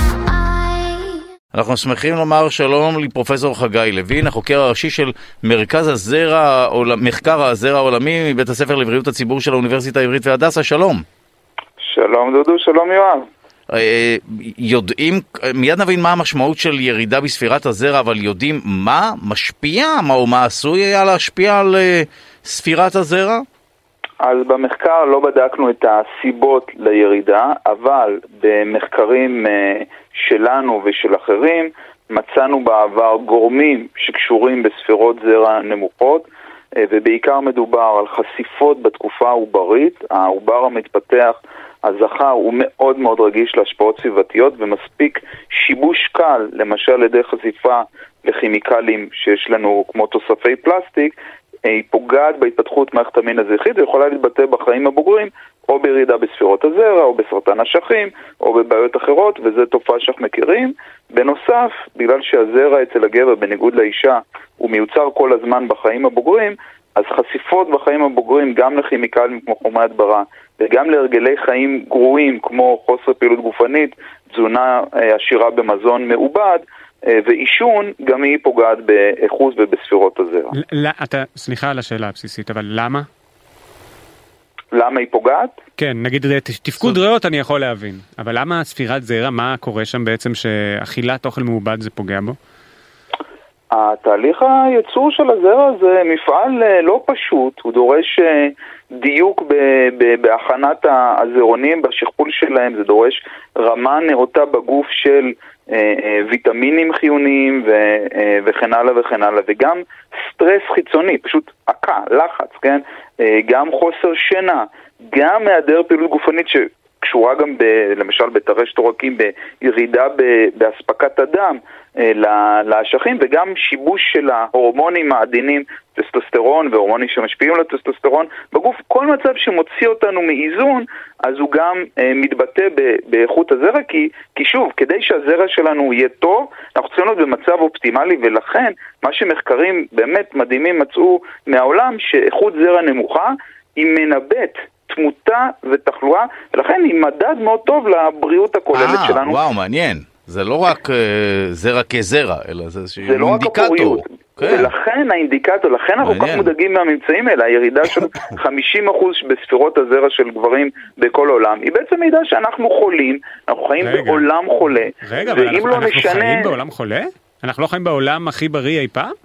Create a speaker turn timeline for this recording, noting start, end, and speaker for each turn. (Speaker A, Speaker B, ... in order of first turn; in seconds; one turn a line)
Speaker A: 1.5-11.0
Speaker B: 11.8-13.2
Speaker A: 13.7-23.4
Speaker B: 24.2-36.3
Speaker B: 36.8-80.5
Speaker C: 80.6-83.1
Speaker B: 84.7-85.6
Speaker C: 85.8-92.3
Speaker B: 93.7-149.4
Speaker A: 148.7-154.7
Speaker B: 153.0-166.5
Speaker A: 156.0-156.5
Speaker C: 163.8-164.2
Speaker C: 165.0-169.1